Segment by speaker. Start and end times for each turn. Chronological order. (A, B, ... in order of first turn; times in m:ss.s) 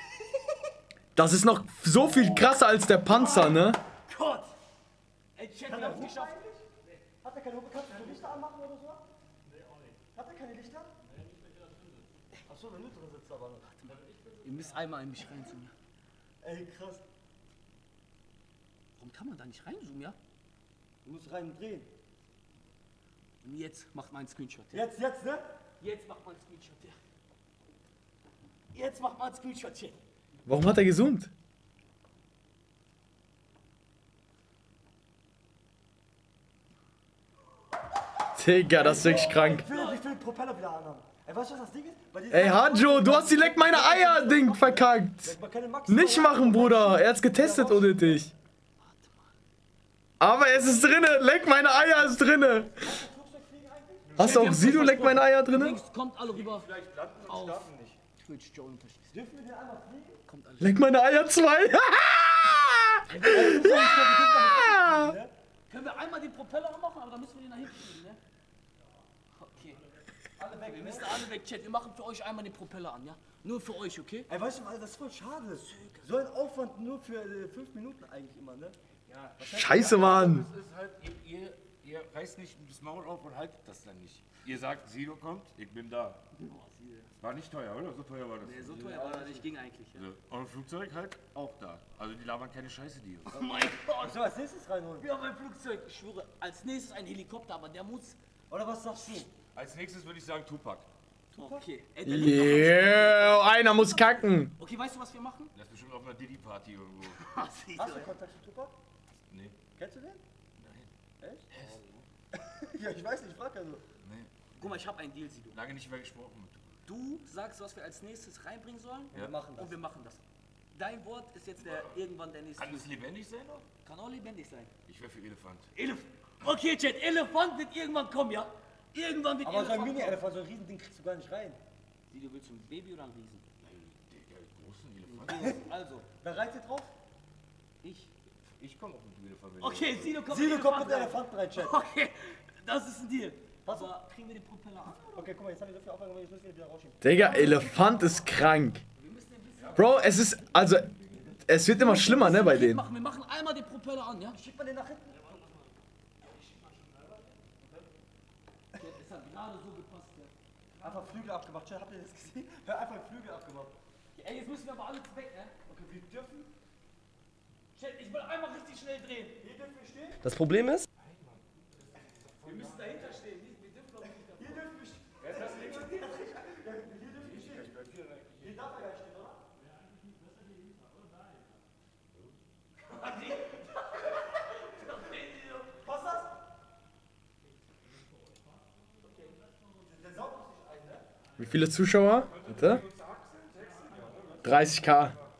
0:01.2-0:03.8 A
0:03.1-0:04.5 B
0:05.4-0:06.4 B
0:05.6-0:06.6 C
0:07.2-0:09.0 C
0:10.1-0:10.9 C
0:12.4-0:13.7 C
0:13.7-0:15.7 B
0:16.4-0:17.0 C
0:19.0-0:20.2 B
0:21.0-0:21.9 C
0:23.4-0:24.8 B
0:24.7-0:25.4 C
0:25.8-0:27.0 B
0:28.7-0:30.0 B
0:30.4-0:31.3 A
0:38.4-0:39.6 A
0:38.7-0:48.2 C
0:39.3-0:40.0 B
0:42.3-0:45.3 A
0:45.9-0:48.3 A
0:48.8-0:49.3 B
0:50.2-0:52.9 A
0:52.7-0:54.3 C
0:54.1-0:55.1 D
0:54.2-0:56.7 B
0:54.2-0:55.8 A
0:56.3-0:58.0 D
0:57.2-0:59.2 B
0:59.1-1:00.2 C
1:00.2-1:00.8 B
1:00.6-1:05.1 A
1:03.1-1:03.6 B
1:03.1-1:05.3 C
1:05.7-1:08.2 B
1:09.4-1:09.8 B
1:10.4-1:11.2 C
1:10.6-1:14.3 B
1:14.3-1:18.8 C
1:15.6-1:16.2 B
1:19.1-1:19.4 B
1:19.4-1:20.3 C
1:19.4-1:20.5 A
1:20.0-1:26.2 D
1:26.4-1:27.1 B
1:27.2-1:29.1 D
1:28.4-1:30.1 B
1:28.9-1:29.5 C
1:29.9-1:33.4 D
1:33.3-1:34.2 B
1:33.9-1:35.1 C
1:35.0-1:38.2 B
1:38.5-1:39.3 C
1:39.5-1:40.9 D
1:41.3-1:45.5 B
1:41.3-1:41.6 C
1:42.0-1:44.5 A
1:45.5-1:47.2 D
1:47.2-1:48.1 B
1:47.8-1:48.7 C
1:49.3-1:49.6 D
1:49.7-1:50.2 C
1:50.6-1:50.9 D
1:51.2-1:51.5 C
1:51.5-1:52.0 B
1:51.5-1:51.8 D
1:52.3-1:53.8 C
1:54.0-1:54.8 D
1:54.5-1:55.6 B
1:55.5-1:56.8 D
1:56.8-2:02.9 B
1:59.1-1:59.7 C
2:01.6-2:01.9 D
2:02.6-2:03.6 D
2:03.8-2:04.7 B
2:04.9-2:05.7 D
2:05.7-2:10.2 B
2:09.4-2:11.6 C
2:12.1-2:13.4 B
2:13.6-2:15.6 D
2:15.0-2:16.1 B
2:16.2-2:16.9 C
2:17.8-2:18.1 B
2:18.5-2:20.2 D
2:19.6-2:25.3 B
2:20.2-2:21.8 C
2:23.6-2:23.9 C
2:25.1-2:27.0 C
2:27.0-2:28.8 A
2:27.1-2:28.3 B
2:29.0-2:29.9 B
2:29.6-2:29.9 D
2:29.7-2:30.9 A
2:31.1-2:31.4 C
2:31.5-2:32.8 A
2:31.7-2:34.4 B
2:34.3-2:35.4 C
2:36.2-2:37.7 B
2:38.7-2:41.1 B
2:40.8-2:43.8 C
2:44.1-2:45.5 B
2:45.7-2:46.5 C
2:47.7-2:49.4 B
2:49.4-2:50.2 C
2:50.2-2:50.9 A
2:51.0-2:53.2 D
2:52.4-2:54.7 B
2:54.4-2:57.7 C
2:55.2-2:56.0 D
2:57.2-2:58.5 D
2:58.4-2:59.4 C
3:02.8-3:04.1 B
3:04.6-3:05.7 B
3:05.8-3:06.3 C
3:09.8-3:11.0 C
3:11.4-3:12.8 A
3:12.2-3:15.2 D
3:14.4-3:15.2 A